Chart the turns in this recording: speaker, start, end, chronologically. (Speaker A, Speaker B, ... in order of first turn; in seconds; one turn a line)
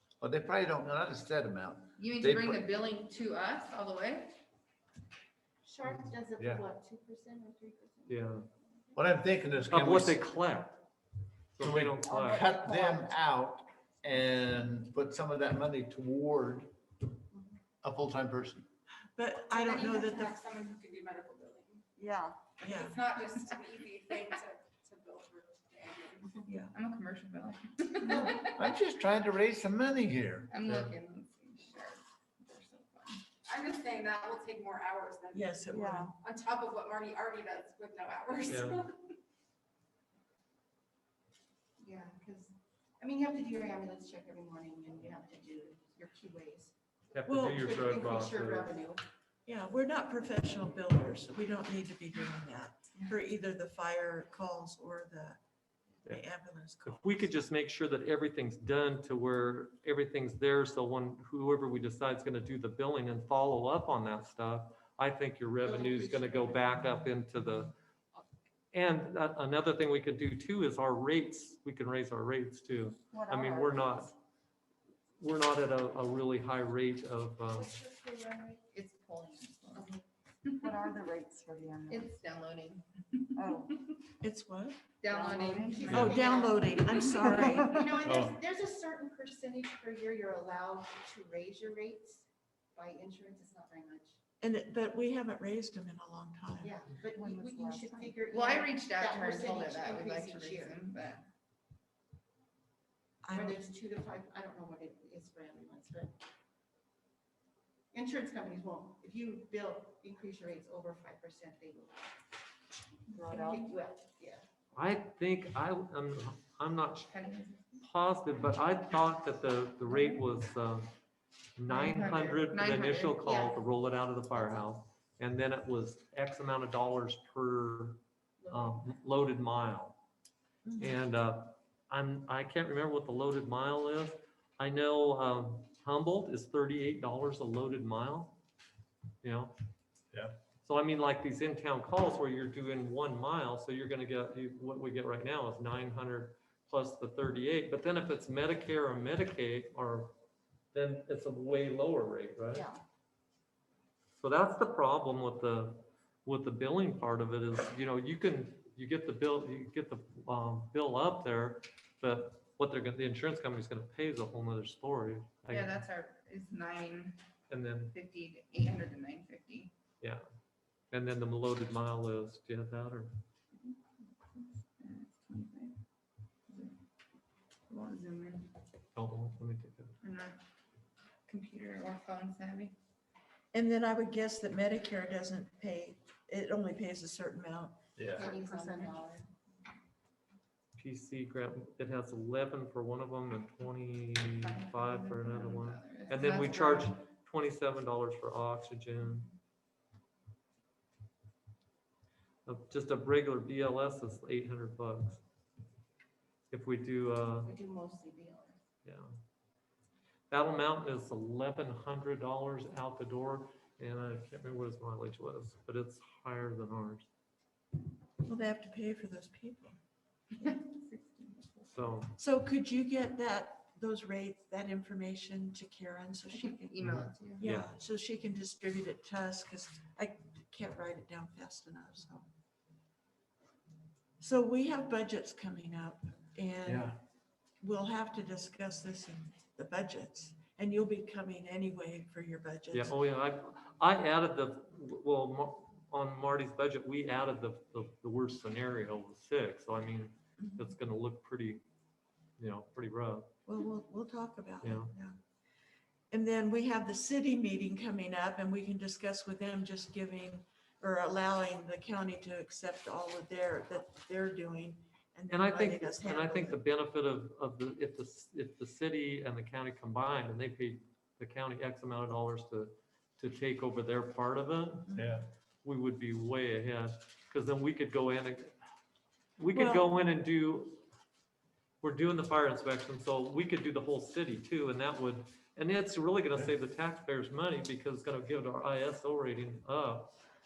Speaker A: 0.2-2.6
Speaker B: 2.0-4.4
Speaker C: 5.6-9.0
Speaker A: 6.4-6.6
Speaker D: 8.1-8.4
Speaker A: 8.9-10.2
Speaker D: 9.7-10.8
Speaker D: 11.5-12.4
Speaker A: 11.6-16.7
Speaker E: 12.1-13.1
Speaker A: 17.8-18.6
Speaker F: 19.1-20.4
Speaker G: 19.5-21.8
Speaker E: 22.0-22.5
Speaker G: 22.6-26.4
Speaker F: 22.6-23.0
Speaker F: 26.4-26.7
Speaker B: 26.7-28.6
Speaker A: 28.2-30.5
Speaker B: 30.5-33.2
Speaker D: 30.6-30.9
Speaker G: 33.4-38.9
Speaker F: 35.3-36.2
Speaker E: 35.7-36.1
Speaker D: 38.5-38.9
Speaker C: 41.8-46.7
Speaker D: 47.1-48.7
Speaker F: 47.2-47.7
Speaker C: 47.6-49.0
Speaker F: 49.5-55.4
Speaker F: 56.0-57.3
Speaker D: 56.8-67.7
Speaker C: 65.6-66.7
Speaker D: 68.7-74.1
Speaker E: 73.1-74.1
Speaker D: 75.2-77.7
Speaker C: 77.5-78.6
Speaker B: 78.6-79.9
Speaker C: 79.7-80.0
Speaker B: 80.4-80.7
Speaker E: 80.6-82.2
Speaker B: 81.9-84.0
Speaker E: 83.4-83.8
Speaker F: 84.2-84.8
Speaker B: 85.0-86.2
Speaker E: 85.1-86.3
Speaker C: 85.7-94.2
Speaker F: 85.9-87.9
Speaker B: 86.8-87.4
Speaker E: 87.2-88.0
Speaker A: 88.0-88.3
Speaker F: 94.4-96.7
Speaker C: 96.6-100.8
Speaker E: 97.0-98.3
Speaker B: 98.3-101.3
Speaker F: 103.2-103.6
Speaker C: 103.3-106.1
Speaker C: 107.9-112.0
Speaker E: 113.1-113.8
Speaker C: 113.2-114.4
Speaker D: 114.7-117.1
Speaker B: 117.0-117.8
Speaker D: 117.8-120.9
Speaker B: 119.9-120.2
Speaker D: 121.5-130.0
Speaker B: 121.7-123.3
Speaker C: 123.3-123.5
Speaker C: 128.4-129.0
Speaker F: 130.6-131.0
Speaker D: 130.8-138.4
Speaker D: 139.2-139.5
Speaker D: 140.6-150.1
Speaker D: 150.7-152.7
Speaker C: 152.5-152.8
Speaker D: 154.2-165.8
Speaker B: 165.5-167.2
Speaker D: 167.5-167.9
Speaker B: 167.9-169.7
Speaker D: 170.9-173.2
Speaker B: 173.5-175.8
Speaker B: 176.5-176.8
Speaker B: 177.7-178.5
Speaker D: 178.9-180.0
Speaker B: 180.0-180.4
Speaker B: 181.3-182.7
Speaker F: 183.5-187.8
Speaker A: 188.0-188.2
Speaker C: 188.1-189.3
Speaker B: 188.2-189.0
Speaker D: 190.8-199.3
Speaker B: 194.3-196.8
Speaker D: 202.4-205.2
Speaker D: 206.5-207.5
Speaker C: 207.4-208.6
Speaker D: 208.8-209.1
Speaker D: 210.3-217.1
Speaker F: 218.2-219.8
Speaker B: 220.3-221.7
Speaker D: 221.7-222.1
Speaker F: 222.2-232.2
Speaker B: 226.6-227.4
Speaker D: 227.4-227.7
Speaker F: 234.2-236.9
Speaker A: 236.6-236.9
Speaker F: 237.6-242.9
Speaker D: 242.7-251.6
Speaker F: 250.4-250.7
Speaker D: 252.4-253.3
Speaker F: 253.4-255.2
Speaker D: 254.6-254.9
Speaker F: 256.1-266.6
Speaker D: 265.3-275.0
Speaker A: 274.9-275.2
Speaker D: 275.6-278.5
Speaker D: 279.4-280.8
Speaker F: 279.5-279.9
Speaker D: 281.8-290.1